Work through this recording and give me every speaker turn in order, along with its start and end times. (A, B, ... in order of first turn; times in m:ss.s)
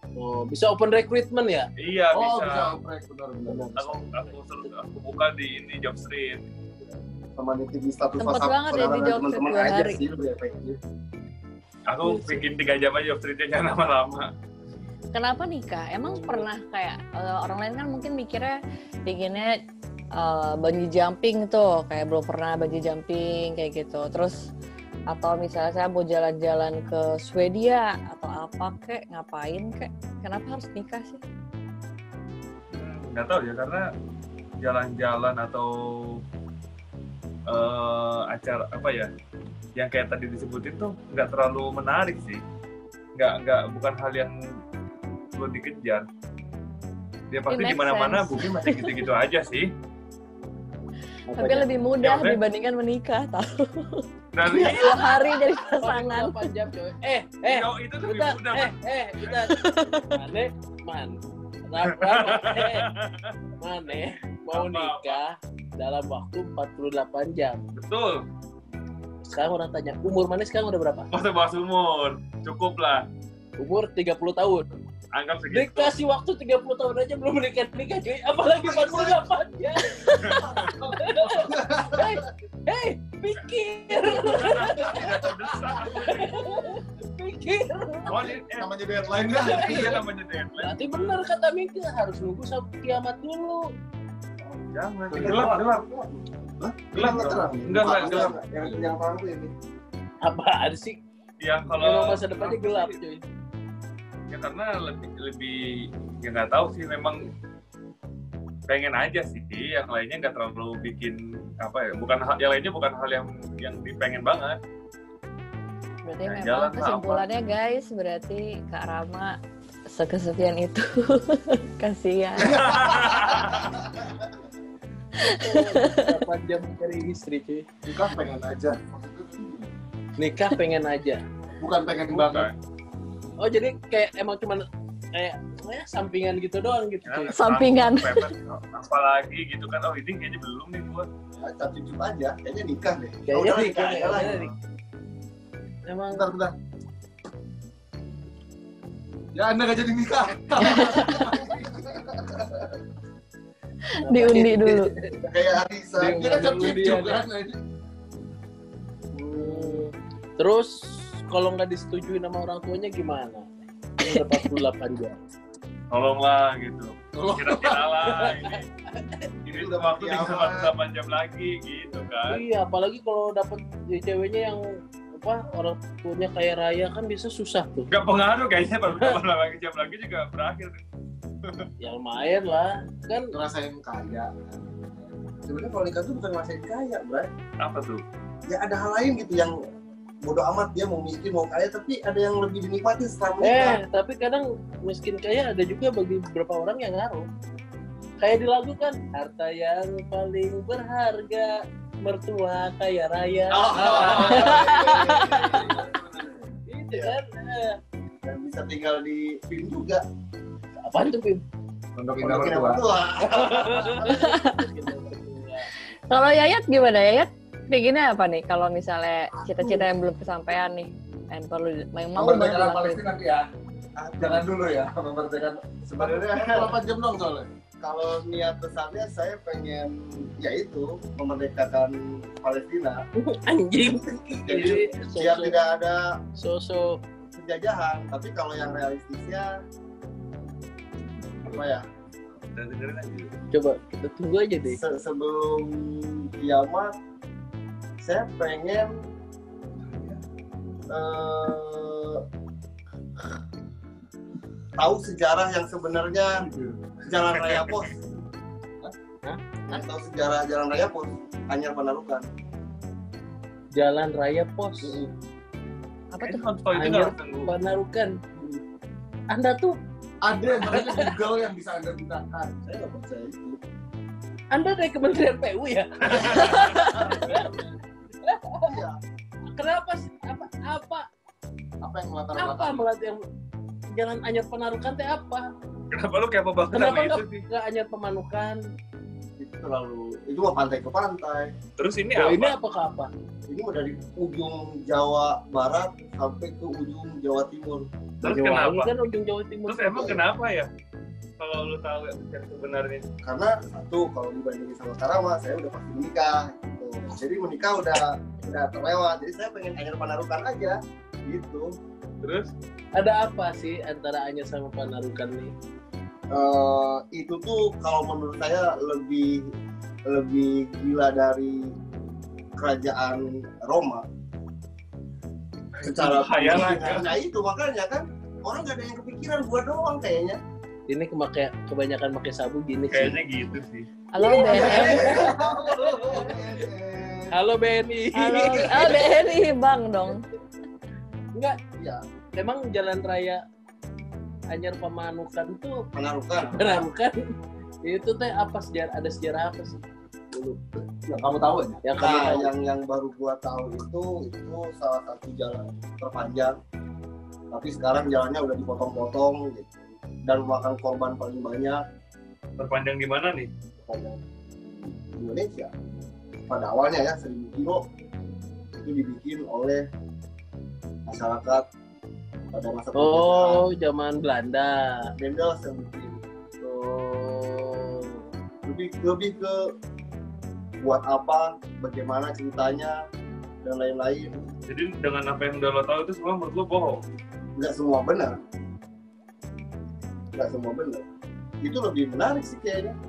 0:00.2-0:01.7 A
0:01.8-0:02.7 B
0:02.1-0:03.9 C
0:03.4-0:04.0 A
0:03.8-0:06.4 B
0:07.4-0:10.8 D
0:08.2-0:10.0 E
0:11.9-0:14.3 B
0:12.0-0:12.4 A
0:15.1-0:19.6 E
0:20.1-0:24.5 E
0:25.1-0:31.2 E
0:32.7-0:33.9 B
0:34.6-0:36.2 B
0:37.5-0:39.1 B
0:39.8-0:42.4 B
0:43.2-0:44.3 B
0:45.3-0:46.1 B
0:47.3-0:49.7 B
0:47.5-0:49.0 E
0:51.3-0:56.5 E
0:52.0-0:52.4 B
0:54.3-0:55.2 B
0:54.6-1:02.9 A
0:57.4-0:59.5 B
0:59.5-1:00.1 E
1:01.8-1:03.4 B
1:03.6-1:07.6 A
1:04.5-1:05.2 B
1:07.7-1:08.2 B
1:09.2-1:11.1 A
1:11.1-1:13.1 B
1:13.6-1:14.7 A
1:15.1-1:15.9 B
1:15.5-1:25.1 A
1:18.6-1:19.1 D
1:20.2-1:20.7 B
1:20.6-1:22.2 C
1:23.9-1:26.5 B
1:26.0-1:28.1 A
1:28.0-1:30.0 C
1:28.0-1:31.2 B
1:29.4-1:29.9 A
1:30.6-1:33.7 A
1:34.7-1:35.8 B
1:35.1-1:39.5 D
1:36.9-1:38.3 B
1:37.8-1:38.8 C
1:40.2-1:41.0 A
1:41.4-1:43.0 B
1:41.7-1:43.2 A
1:44.3-1:47.2 B
1:48.7-1:54.6 B
1:56.0-1:59.4 E
1:56.2-1:57.3 B
1:59.9-2:03.1 E
2:02.4-2:03.7 B
2:02.7-2:03.5 C
2:05.2-2:06.2 E
2:05.2-2:07.7 A
2:07.8-2:09.7 C
2:10.2-2:11.2 A
2:11.6-2:12.5 C
2:12.1-2:12.5 B
2:13.4-2:17.4 A
2:17.0-2:21.1 B
2:17.3-2:18.3 E
2:21.4-2:24.5 D
2:23.2-2:24.5 A
2:25.8-2:26.3 A
2:26.1-2:26.5 C
2:29.3-2:32.5 C
2:30.7-2:31.1 E
2:31.3-2:31.5 D
2:33.9-2:34.9 E
2:34.0-2:35.3 A
2:35.2-2:36.2 D
2:36.0-2:37.2 A
2:36.0-2:37.6 C
2:39.1-2:45.2 A
2:39.4-2:39.7 D
2:45.9-2:48.6 B
2:47.1-2:47.9 C
2:48.0-2:49.3 A
2:49.4-2:52.4 B
2:49.5-2:50.7 D
2:52.3-2:57.9 A
2:57.9-3:00.8 B
2:58.9-2:59.2 A
3:01.8-3:03.3 A
3:03.3-3:05.1 C
3:05.4-3:07.3 D
3:07.6-3:08.0 B
3:08.5-3:09.6 D
3:10.2-3:13.8 D
3:13.4-3:17.3 A
3:18.2-3:25.7 A
3:23.6-3:25.9 D
3:23.7-3:26.5 C
3:24.0-3:24.3 B
3:24.5-3:25.4 E
3:26.7-3:27.8 A
3:26.9-3:27.2 D
3:28.2-3:30.0 D
3:30.8-3:31.4 A
3:32.0-3:32.8 C
3:32.2-3:34.3 D
3:33.2-3:35.7 A
3:34.0-3:34.6 E
3:36.1-3:43.0 E
3:39.5-3:39.8 C
3:42.2-3:43.5 C
3:44.0-3:44.5 D
3:44.2-3:47.5 C
3:45.9-3:46.7 D
3:47.8-3:53.0 D
3:53.2-3:55.6 A
3:54.3-3:56.2 D
3:56.4-3:57.0 A
3:57.3-3:59.6 D
4:01.4-4:01.8 D
4:02.5-4:03.4 B
4:03.5-4:04.8 A
4:04.7-4:06.9 D
4:08.0-4:08.9 D
4:09.8-4:10.2 C
4:10.9-4:12.2 D
4:14.8-4:16.4 D
4:16.4-4:16.8 C
4:17.0-4:18.0 D
4:17.4-4:17.8 B
4:19.2-4:19.8 A
4:19.7-4:22.3 D
4:23.7-4:25.0 A
4:24.8-4:25.1 D
4:26.1-4:26.4 E
4:26.2-4:27.5 B
4:26.7-4:28.2 A
4:28.3-4:28.6 D
4:29.3-4:29.8 A
4:30.2-4:32.6 C
4:30.6-4:31.1 A
4:32.6-4:33.6 D
4:34.5-4:37.5 A
4:36.1-4:36.9 B
4:36.1-4:37.7 D
4:38.2-4:38.7 A
4:38.6-4:39.0 D
4:39.5-4:41.1 A
4:41.8-4:42.8 C
4:42.4-4:43.2 A
4:43.9-4:45.5 A
4:45.9-4:47.4 B
4:46.7-4:48.6 A
4:49.4-4:51.5 D
4:51.8-4:52.6 B
4:52.1-4:53.1 A
4:53.5-4:57.9 D
4:58.2-4:58.9 B
4:58.2-5:00.1 A
4:59.7-5:00.7 B
5:01.4-5:03.0 B
5:03.2-5:11.7 D
5:12.2-5:12.5 B
5:13.0-5:15.5 A
5:16.3-5:19.5 D
5:20.0-5:21.8 D
5:22.6-5:24.0 D
5:25.8-5:27.2 B
5:25.8-5:30.4 D
5:30.9-5:33.2 A
5:32.9-5:33.9 B
5:34.1-5:35.2 E
5:34.2-5:36.6 D
5:34.4-5:37.3 C
5:34.6-5:35.3 A
5:37.3-5:39.1 A
5:38.1-5:40.2 E
5:42.4-5:43.4 A
5:44.5-5:45.8 A
5:45.9-5:46.9 D
5:46.4-5:50.6 A
5:50.9-5:51.8 C
5:51.8-5:52.5 A
5:51.9-5:56.6 D
5:57.5-6:01.8 D
6:02.6-6:03.5 B
6:03.8-6:05.7 D
6:06.5-6:07.8 D
6:08.7-6:09.8 D
6:11.0-6:11.6 D
6:12.5-6:13.6 D
6:12.9-6:15.1 A
6:15.2-6:16.2 D
6:16.6-6:18.2 A
6:18.6-6:19.7 D
6:20.8-6:23.0 D
6:23.6-6:24.5 D
6:24.7-6:27.0 B
6:27.6-6:28.3 D
6:30.3-6:31.0 D
6:31.6-6:33.0 D